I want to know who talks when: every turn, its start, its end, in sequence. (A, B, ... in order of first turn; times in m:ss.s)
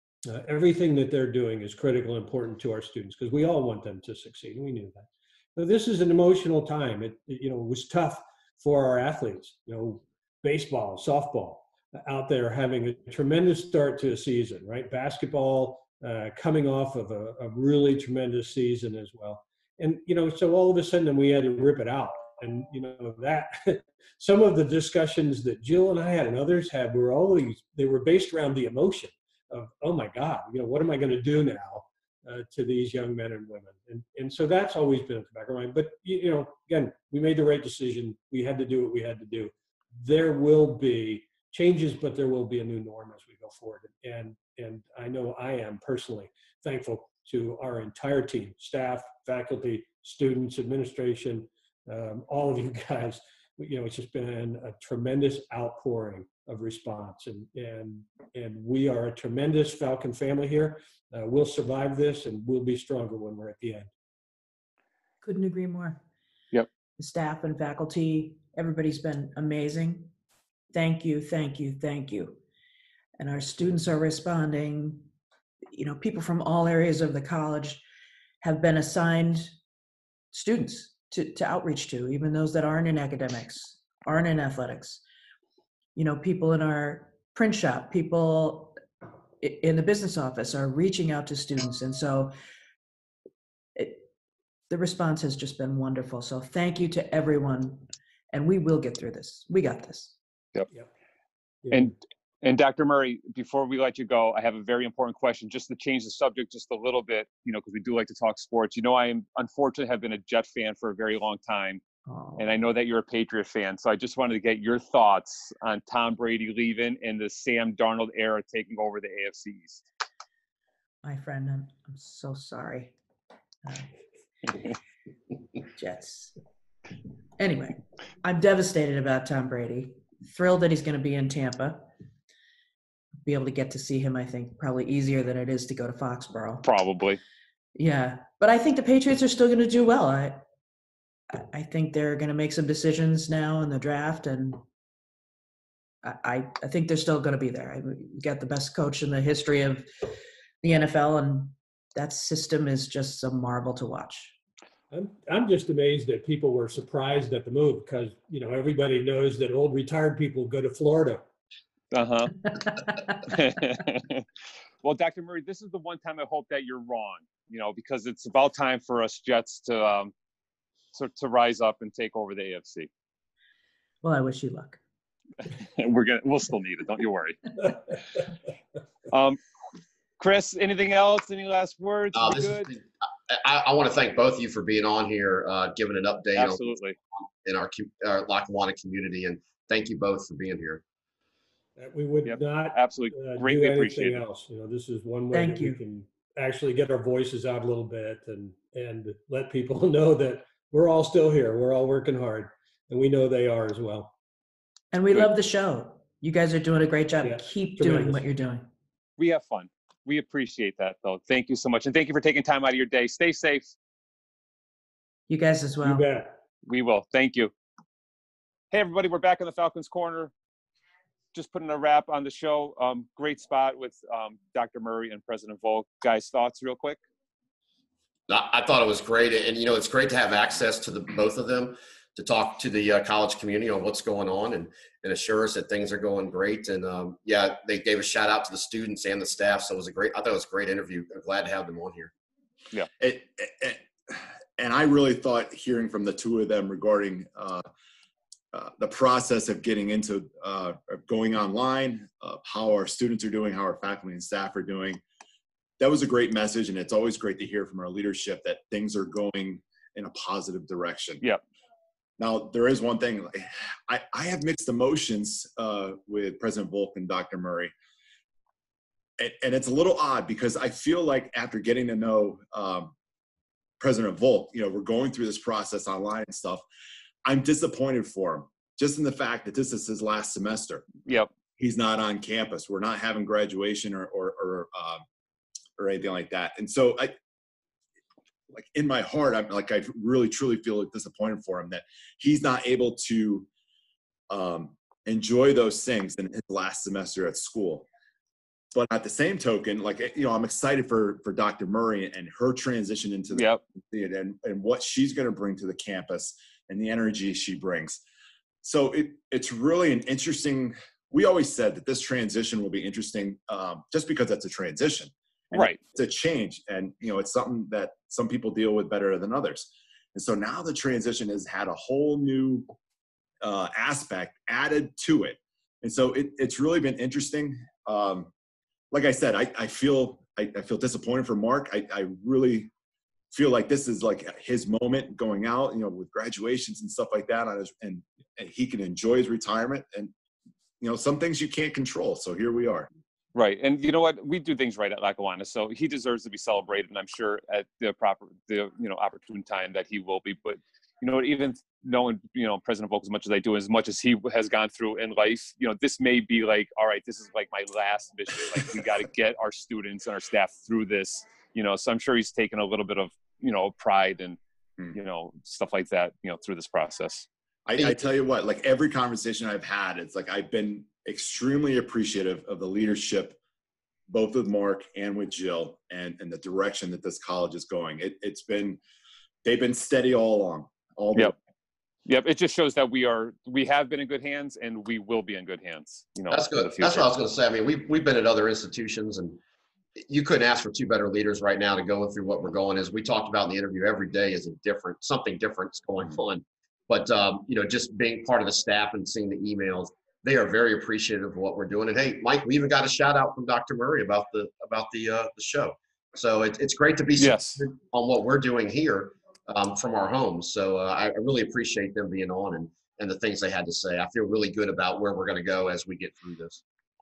0:00.2-1:03.9 A
1:05.2-1:06.0 B
1:07.0-1:10.1 B
1:10.7-1:12.4 B
1:13.2-1:15.1 B
1:15.7-1:17.8 B
1:18.4-1:19.5 B
1:20.3-1:25.0 B
1:25.9-1:28.8 B
1:29.4-1:32.3 B
1:33.8-1:34.1 B
1:34.7-1:40.2 B
1:41.6-1:41.9 A
1:41.7-1:51.8 C
1:52.1-1:52.4 B
1:52.4-1:59.8 C
2:01.0-2:02.9 B
2:03.6-2:03.9 B
2:05.6-2:06.3 B
2:07.4-2:11.9 B
2:13.2-2:16.6 B
2:16.6-2:17.2 C
2:17.7-2:20.4 B
2:21.3-2:24.6 B
2:26.0-2:34.4 B
2:34.9-2:41.2 A
2:41.9-2:42.6 C
2:43.2-2:44.2 C
2:44.8-2:50.1 C
2:50.9-2:52.9 C
2:54.0-2:54.8 B
2:55.6-2:57.4 C
2:59.1-2:59.4 C
3:00.2-3:02.7 C
3:02.1-3:06.7 D
3:06.3-3:07.0 C
3:07.4-3:10.8 D
3:11.8-3:24.1 A
3:12.2-3:14.2 C
3:15.3-3:15.8 B
3:24.9-3:28.7 B
3:27.2-3:28.2 A
3:29.2-3:33.7 C
3:35.3-3:36.0 B
3:35.8-3:36.3 A
3:36.6-3:37.5 C
3:38.7-3:40.3 C
3:41.3-3:47.0 C
3:48.3-4:02.1 D
4:03.0-4:07.6 E
4:08.5-4:15.0 E
4:15.8-4:21.2 E
4:22.2-4:27.7 E
4:29.2-4:32.9 E
4:33.8-4:36.6 E
4:37.2-4:40.8 E
4:41.6-4:45.0 E
4:45.8-4:47.2 E
4:48.5-4:53.5 E
4:54.3-4:57.9 E
4:58.7-5:08.0 E
5:03.3-5:03.6 C
5:08.6-5:22.7 E
5:15.5-5:15.8 C
5:23.4-5:28.3 E
5:28.9-5:32.7 E
5:33.3-5:40.1 E
5:40.8-5:42.9 E
5:43.3-6:04.4 C
6:04.9-6:07.3 C
6:07.6-6:13.4 E
6:14.1-6:18.8 E
6:19.4-6:21.4 E
6:22.0-6:27.1 C
6:26.3-6:29.4 D
6:30.0-6:56.6 D
6:47.2-6:47.6 C